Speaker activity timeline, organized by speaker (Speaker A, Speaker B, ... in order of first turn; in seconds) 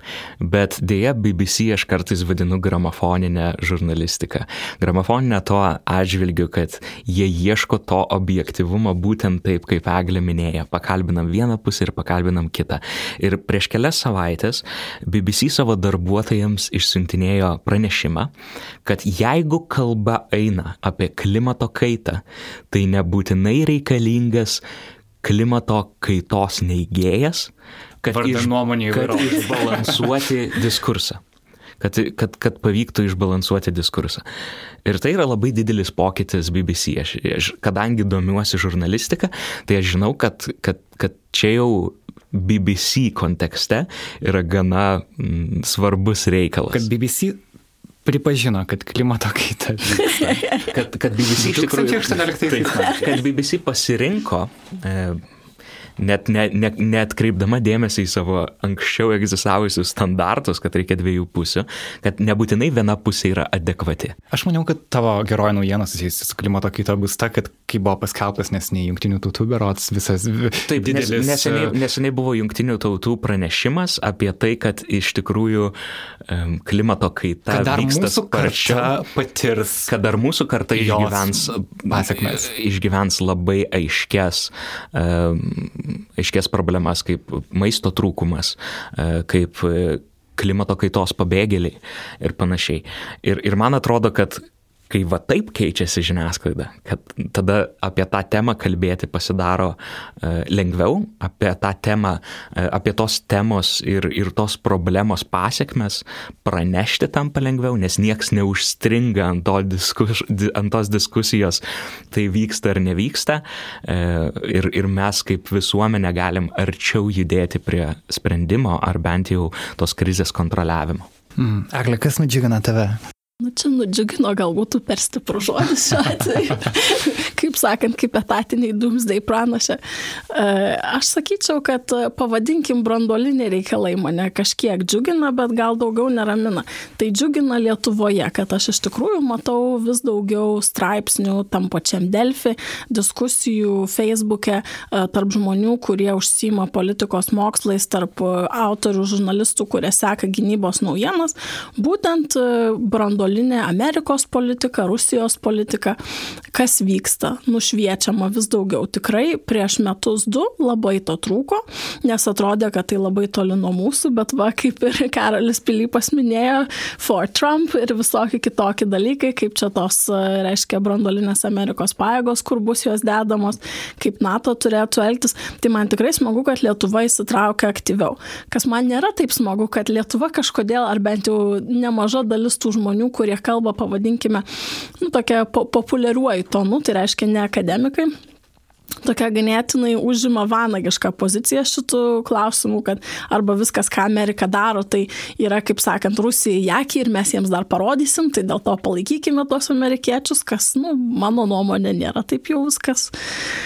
Speaker A: 0.4-18.3, 18.8-24.6, 25.2-27.5, 28.0-31.2, 31.8-34.2, 34.8-46.9, 50.6-55.2, 56.0-64.2, 70.7-75.7, 76.3-79.0, 79.9-121.0
Speaker B: 28.1-30.1, 46.7-47.4, 48.0-50.5, 51.3-53.2, 64.3-71.8, 77.5-79.9, 80.7-82.5, 121.4-123.0
Speaker C: 50.2-50.6, 123.4-156.0, 156.5-184.4, 185.0-188.1, 189.0-203.1